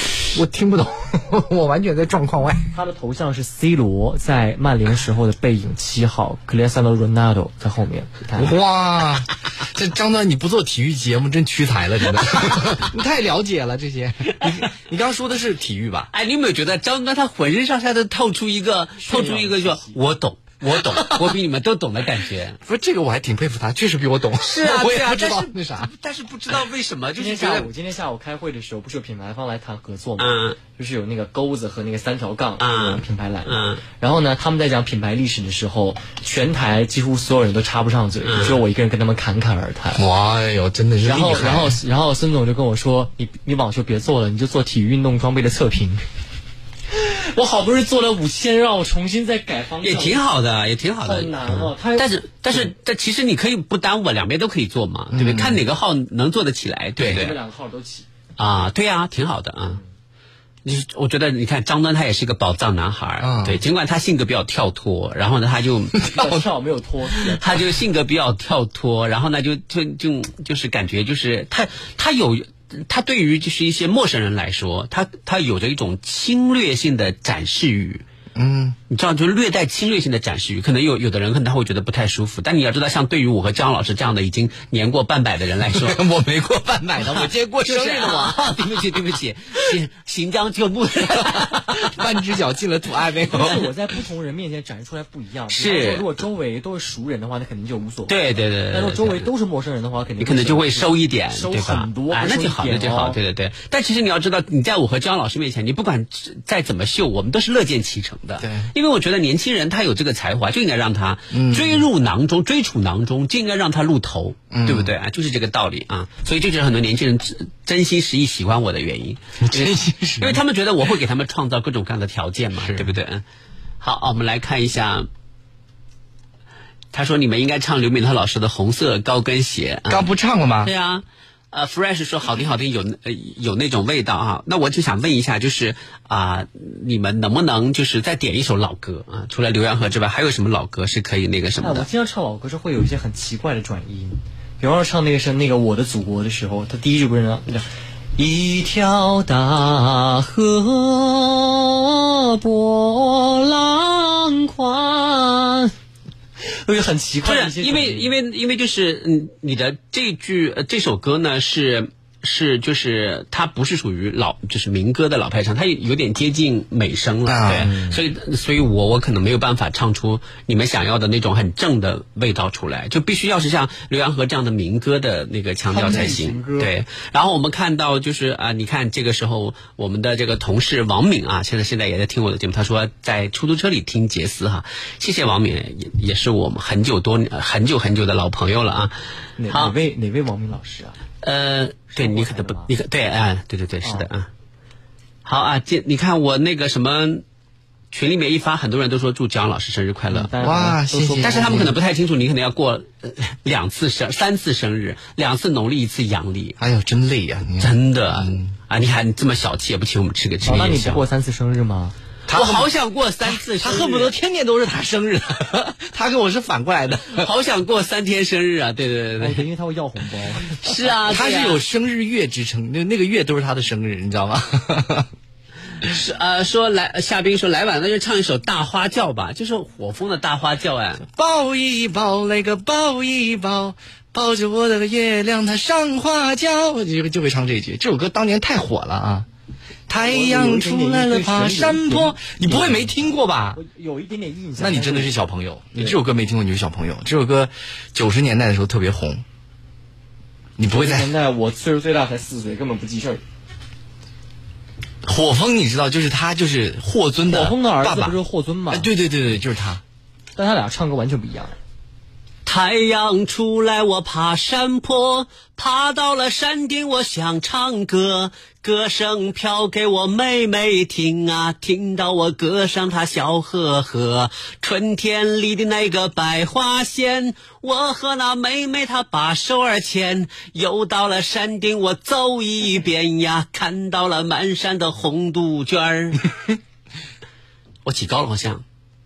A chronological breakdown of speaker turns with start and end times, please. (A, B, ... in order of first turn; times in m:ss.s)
0:00.3-0:02.7 A
0:02.7-0:08.6 B
0:08.4-0:16.1 A
0:16.1-0:22.6 C
0:19.0-0:20.0 B
0:20.8-0:21.3 A
0:22.6-0:25.9 A
0:24.4-0:27.7 C
0:27.2-0:40.0 B
0:30.2-0:30.6 C
0:32.6-0:33.8 C
0:38.3-0:38.6 C
0:40.0-0:41.8 A
0:41.0-0:46.0 B
0:46.9-0:50.2 B
0:49.8-0:57.4 C
0:51.0-0:52.6 B
0:55.1-0:55.6 A
0:57.0-0:57.2 A
0:57.0-0:58.1 B
0:58.4-0:59.8 C
1:00.6-1:06.0 C
1:03.2-1:03.6 A
1:06.0-1:06.4 A
1:06.0-1:07.6 B
1:07.4-1:18.0 C
1:18.3-1:18.8 A
1:18.9-1:26.0 C
1:25.7-1:28.4 A
1:27.2-1:32.0 C
1:31.1-1:33.7 A
1:33.3-1:38.2 B
1:35.5-1:36.0 C
1:38.1-1:39.3 C
1:38.7-1:43.2 B
1:40.2-2:03.2 C
1:48.4-1:48.7 A
1:51.3-1:51.8 A
1:54.5-1:54.9 A
1:59.4-2:00.4 A
2:02.6-2:03.0 A
2:03.8-2:05.1 C
2:06.9-2:10.1 C
2:09.9-2:10.7 A
2:10.6-2:21.9 C
2:21.6-2:35.7 B
2:36.7-2:38.1 B
2:37.2-3:08.9 C
2:47.3-2:47.7 A
2:55.7-2:56.7 B
3:09.4-3:11.0 B
3:09.5-3:09.7 C
3:11.2-3:14.3 C
3:11.9-3:12.7 B
3:13.8-3:14.1 B
3:15.2-3:17.2 C
3:17.9-3:20.3 C
3:20.1-3:21.7 B
3:20.4-3:21.7 A
3:21.2-3:26.6 C
3:26.6-3:28.5 A
3:27.6-3:31.0 C
3:30.4-3:32.0 B
3:32.3-3:32.7 A
3:32.3-3:34.1 C
3:33.2-3:37.3 A
3:37.1-3:39.4 C
3:39.2-3:40.6 B
3:40.6-3:41.6 C
3:41.0-3:45.1 A
3:45.8-3:51.0 C
3:51.1-3:59.3 A
3:59.9-4:03.6 A
4:00.0-4:03.0 B
4:03.6-4:05.2 B
4:04.6-4:09.2 A
4:10.6-4:11.1 A
4:10.7-4:13.2 B
4:15.0-4:18.2 A
4:17.3-4:18.9 B
4:18.7-4:19.8 A
4:20.4-4:21.5 B
4:22.4-4:46.3 C
4:47.8-4:48.6 C